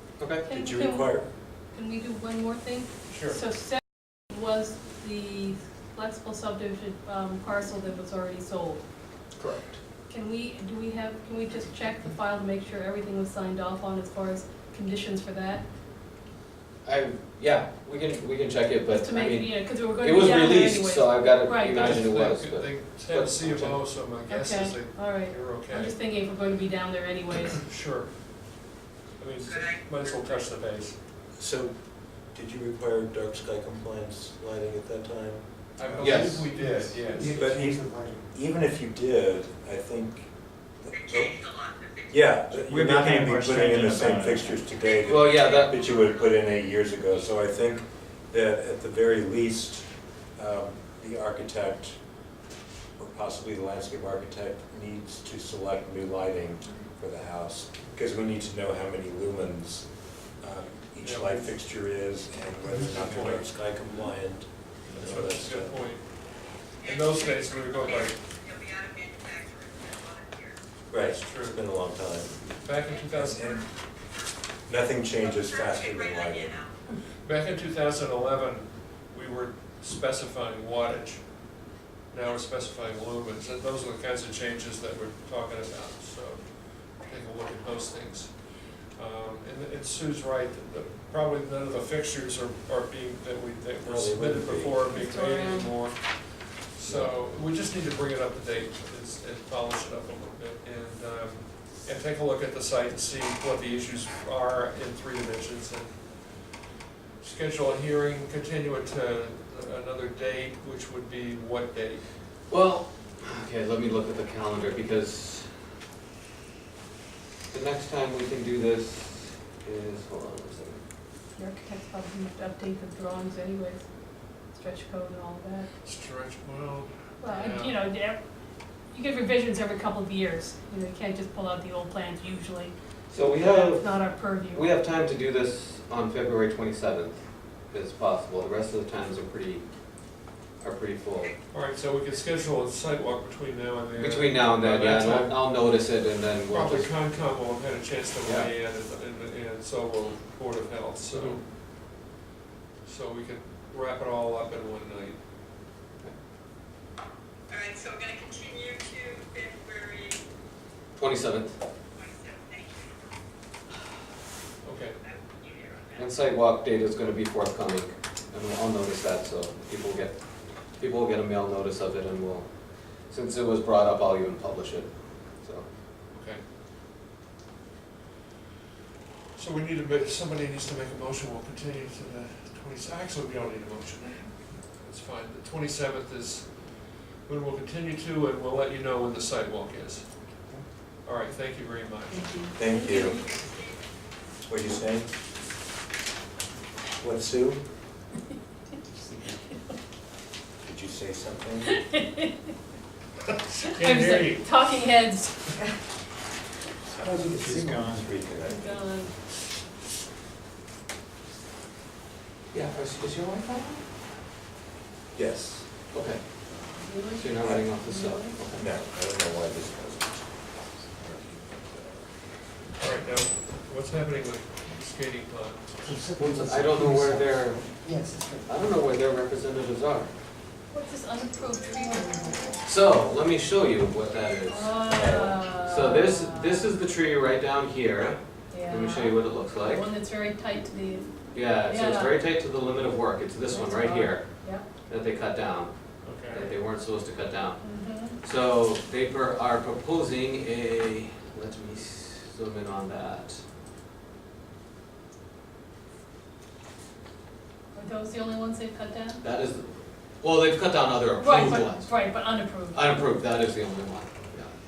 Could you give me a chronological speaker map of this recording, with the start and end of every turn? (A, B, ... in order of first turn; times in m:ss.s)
0:00.2-0:00.5 A
0:00.4-0:01.2 B
0:00.5-0:01.2 C
0:01.7-0:08.8 B
0:03.1-0:03.4 D
0:09.4-0:09.8 A
0:10.1-0:15.7 B
0:16.8-0:23.9 A
0:18.9-0:22.0 B
0:21.8-0:26.0 D
0:24.2-0:27.6 B
0:27.6-0:28.6 D
0:29.2-0:31.0 D
0:31.4-0:35.4 C
0:35.8-0:37.4 D
0:35.8-0:38.3 E
0:36.0-0:36.4 A
0:37.2-0:52.0 C
0:40.9-0:42.2 F
0:42.5-0:44.8 E
0:44.7-0:47.6 F
0:45.0-0:45.8 A
0:53.0-1:05.9 C
1:01.0-1:01.5 D
1:02.8-1:03.5 D
1:04.8-1:06.2 D
1:06.8-1:08.2 D
1:06.8-1:10.6 F
1:10.9-1:12.5 C
1:11.1-1:11.6 D
1:12.6-1:13.6 D
1:13.1-1:13.6 C
1:14.7-1:16.6 C
1:15.2-1:16.8 F
1:17.2-1:21.3 D
1:22.1-1:46.5 D
1:33.8-1:34.9 C
1:34.9-1:35.7 B
1:47.2-1:52.1 D
1:52.5-1:55.5 A
1:57.5-2:00.8 A
2:01.4-2:03.8 B
2:04.5-2:05.7 B
2:05.8-2:07.8 D
2:07.2-2:08.2 B
2:08.9-2:14.7 B
2:13.1-2:17.2 A
2:17.7-2:19.6 A
2:20.6-2:21.3 A
2:21.5-2:25.4 D
2:24.0-2:27.1 A
2:26.5-2:31.4 D
2:28.2-2:28.5 A
2:31.1-2:31.4 A
2:32.8-2:35.2 D
2:37.5-2:40.2 F
2:40.9-2:41.6 A
2:42.0-2:42.9 F
2:44.6-2:45.0 D
2:45.0-2:46.0 F
2:46.0-2:50.2 A
2:50.7-2:55.6 A
2:56.1-2:56.4 D
2:59.3-3:10.1 D
3:11.0-3:12.4 D
3:12.5-3:13.2 C
3:13.1-3:13.7 F
3:14.4-3:15.1 C
3:17.0-3:17.6 C
3:20.6-3:21.8 C
3:21.7-3:22.5 B
3:23.3-3:24.5 D
3:23.6-3:25.5 B
3:27.0-3:28.1 E
3:27.0-3:28.8 C
3:28.4-3:29.1 B
3:32.5-3:33.8 A
3:35.1-3:35.7 C
3:35.9-3:36.2 A
3:36.5-3:38.4 B
3:37.1-3:38.6 A
3:38.5-3:42.1 C
3:42.8-3:46.0 D
3:45.9-3:48.4 E
3:46.2-3:47.8 A
3:48.4-3:50.1 A
3:50.7-3:52.4 B
3:52.6-3:59.9 A
3:54.5-3:56.7 B
3:58.5-4:02.2 B
4:01.3-4:04.3 A
4:03.4-4:04.6 B
4:04.8-4:07.6 A
4:06.0-4:06.5 D
4:07.6-4:08.2 B
4:08.2-4:13.4 A
4:17.7-4:19.2 B
4:19.2-4:24.5 A
4:21.2-4:23.2 B